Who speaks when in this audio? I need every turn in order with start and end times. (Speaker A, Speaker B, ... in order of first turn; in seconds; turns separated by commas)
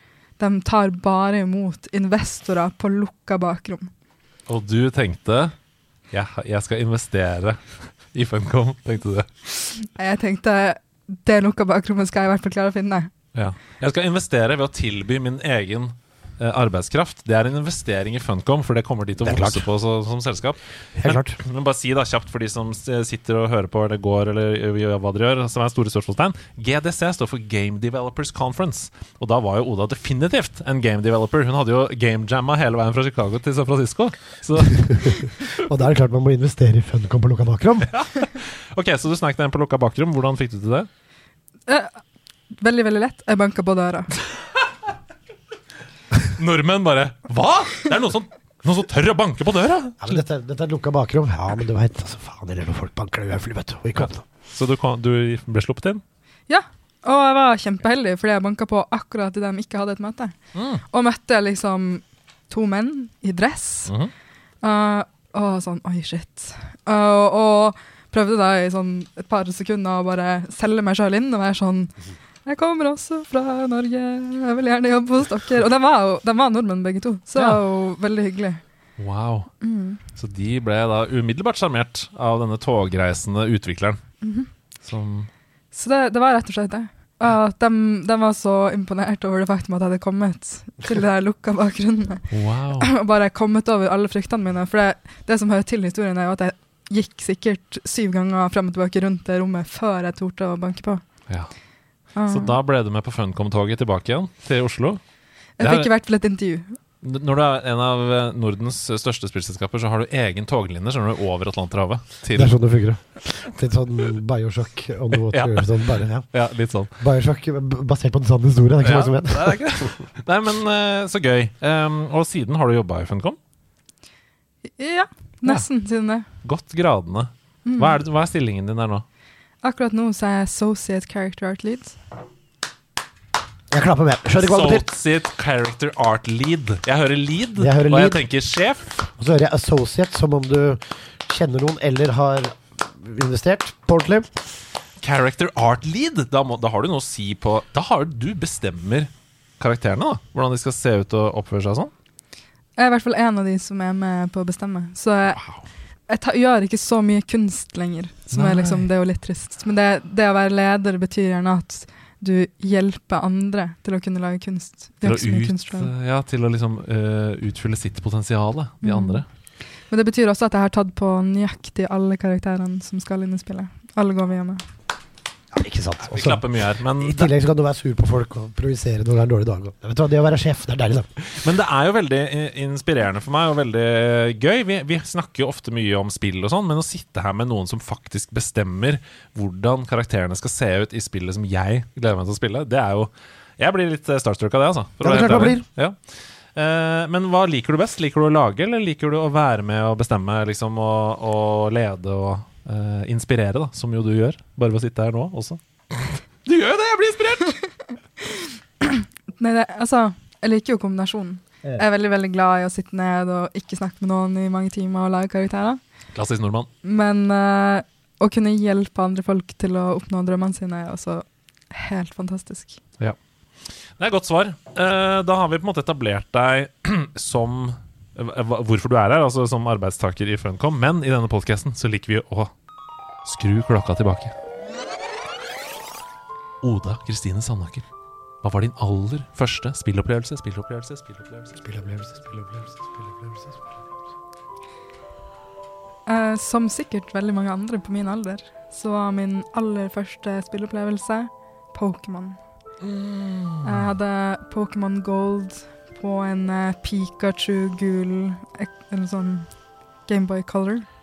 Speaker A: 0.4-3.9, Speaker B: 4.5-5.5, Speaker B: 6.1-9.3, Speaker A: 9.8-13.1, Speaker B: 13.3-35.5, Speaker C: 19.2-19.6, Speaker C: 20.9-21.4, Speaker C: 34.9-37.9, Speaker B: 37.9-40.9, Speaker A: 41.7-42.0, Speaker A: 42.6-44.1, Speaker B: 46.3-50.2, Speaker C: 50.0-54.2, Speaker B: 54.0-56.0, Speaker A: 56.5-60.4, Speaker B: 60.5-60.8, Speaker A: 60.9-63.9, Speaker A: 64.6-71.9, Speaker A: 72.4-78.6, Speaker B: 79.0-79.5, Speaker A: 79.6-80.0, Speaker B: 80.1-84.0, Speaker A: 84.2-84.5, Speaker B: 84.8-85.3, Speaker A: 85.7-101.0, Speaker B: 92.3-92.9, Speaker A: 102.1-102.6, Speaker B: 102.3-105.0, Speaker A: 105.6-106.8, Speaker B: 105.6-105.9, Speaker B: 107.0-112.6, Speaker C: 112.3-116.3, Speaker B: 115.1-116.9, Speaker C: 117.0-119.9, Speaker B: 118.8-123.4, Speaker A: 124.8-126.2, Speaker B: 126.4-129.0, Speaker A: 127.6-128.0, Speaker A: 129.6-131.9, Speaker C: 133.7-134.9, Speaker B: 134.4-139.0, Speaker C: 137.6-138.2, Speaker C: 139.2-144.3, Speaker B: 145.0-151.9, Speaker A: 152.8-155.4, Speaker B: 155.4-155.6, Speaker A: 156.1-165.9, Speaker B: 158.3-158.8, Speaker B: 165.0-169.2, Speaker A: 168.8-169.2, Speaker A: 169.9-174.6, Speaker C: 175.5-181.2, Speaker B: 176.0-177.3, Speaker B: 181.3-196.0, Speaker C: 195.0-195.6, Speaker B: 196.5-207.6, Speaker A: 208.8-215.8, Speaker B: 216.1-216.7, Speaker A: 216.8-222.8, Speaker B: 224.0-232.5, Speaker B: 233.2-234.3, Speaker B: 236.6-237.8, Speaker B: 238.4-241.6, Speaker C: 241.6-243.7, Speaker A: 246.1-252.4, Speaker B: 252.8-253.9, Speaker A: 253.6-260.9